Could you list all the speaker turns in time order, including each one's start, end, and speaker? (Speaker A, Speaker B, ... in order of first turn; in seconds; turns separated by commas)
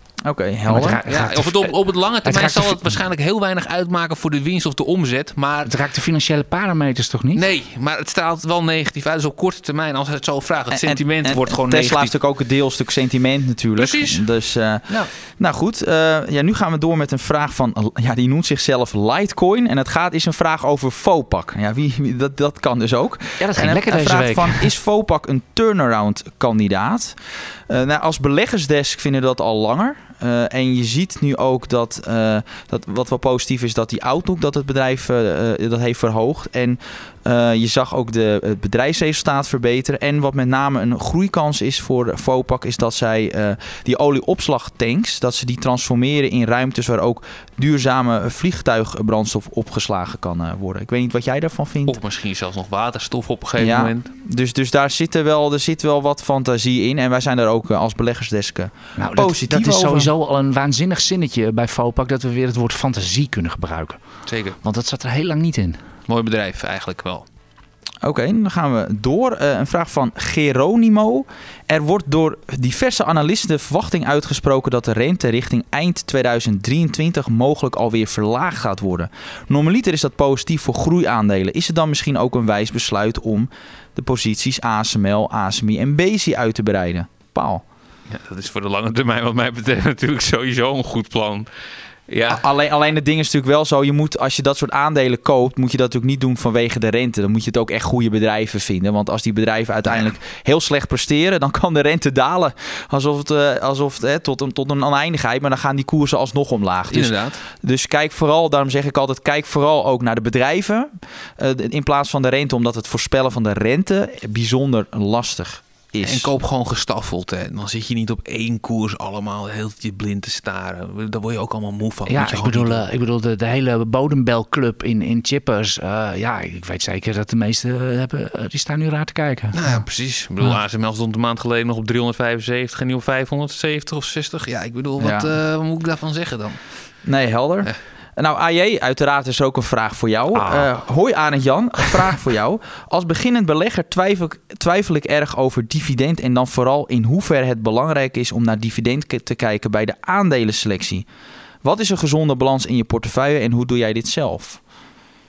Speaker A: 0.2-1.0, Speaker B: 0.7-3.0, Speaker C: 1.1-5.7, Speaker B: 5.7-7.5, Speaker C: 7.3-12.1, Speaker A: 10.7-52.0, Speaker C: 13.8-14.3, Speaker B: 23.4-24.7, Speaker C: 51.9-54.1, Speaker A: 53.6-60.1, Speaker B: 59.0-64.0, Speaker C: 64.3-64.6, Speaker B: 64.6-65.8, Speaker C: 66.1-67.2, Speaker A: 68.0-87.6, Speaker C: 88.1-91.5, Speaker C: 92.1-92.4, Speaker A: 92.3-116.3, Speaker C: 106.9-107.4, Speaker C: 116.0-122.8, Speaker B: 122.1-129.8, Speaker C: 129.5-136.6, Speaker A: 135.0-135.3, Speaker A: 137.1-151.1, Speaker B: 140.3-140.7, Speaker A: 151.6-154.6